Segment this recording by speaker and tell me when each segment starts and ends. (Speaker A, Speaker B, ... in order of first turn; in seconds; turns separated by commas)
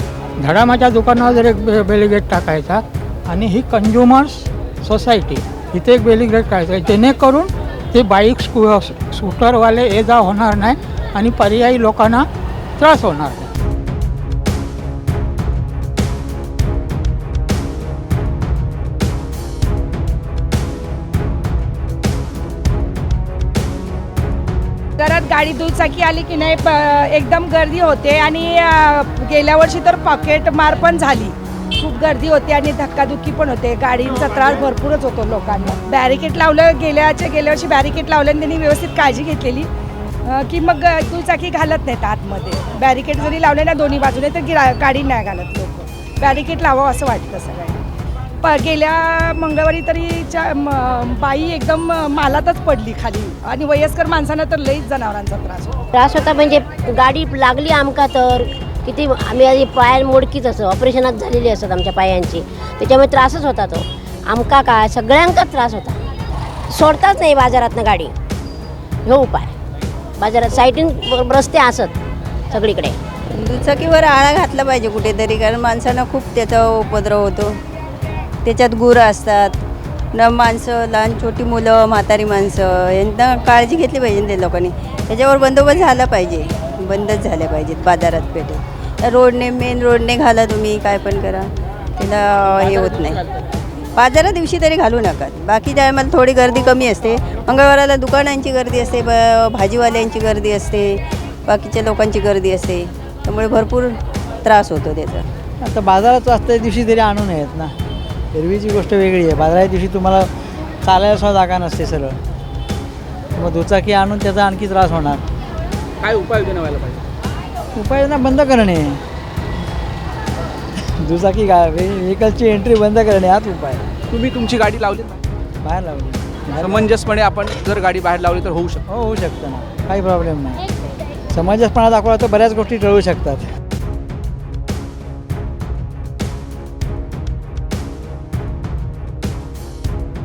Speaker A: 0.4-12.2, Speaker A: 12.8-13.5, Speaker B: 25.0-39.7, Speaker B: 40.2-47.8, Speaker B: 48.4-55.8, Speaker C: 55.9-66.0, Speaker C: 66.7-68.1, Speaker C: 69.0-69.5, Speaker C: 70.2-71.9, Speaker C: 72.5-73.0, Speaker D: 73.3-77.5, Speaker D: 78.4-79.6, Speaker D: 80.1-93.2, Speaker D: 94.0-105.2, Speaker E: 105.6-107.7, Speaker E: 108.3-110.3, Speaker E: 110.8-112.2, Speaker E: 113.4-115.2, Speaker F: 116.0-117.0, Speaker E: 117.7-119.0, Speaker E: 121.0-123.8, Speaker F: 124.1-125.2, Speaker E: 125.6-127.0, Speaker F: 126.6-128.8, Speaker E: 128.8-130.6, Speaker E: 131.3-133.4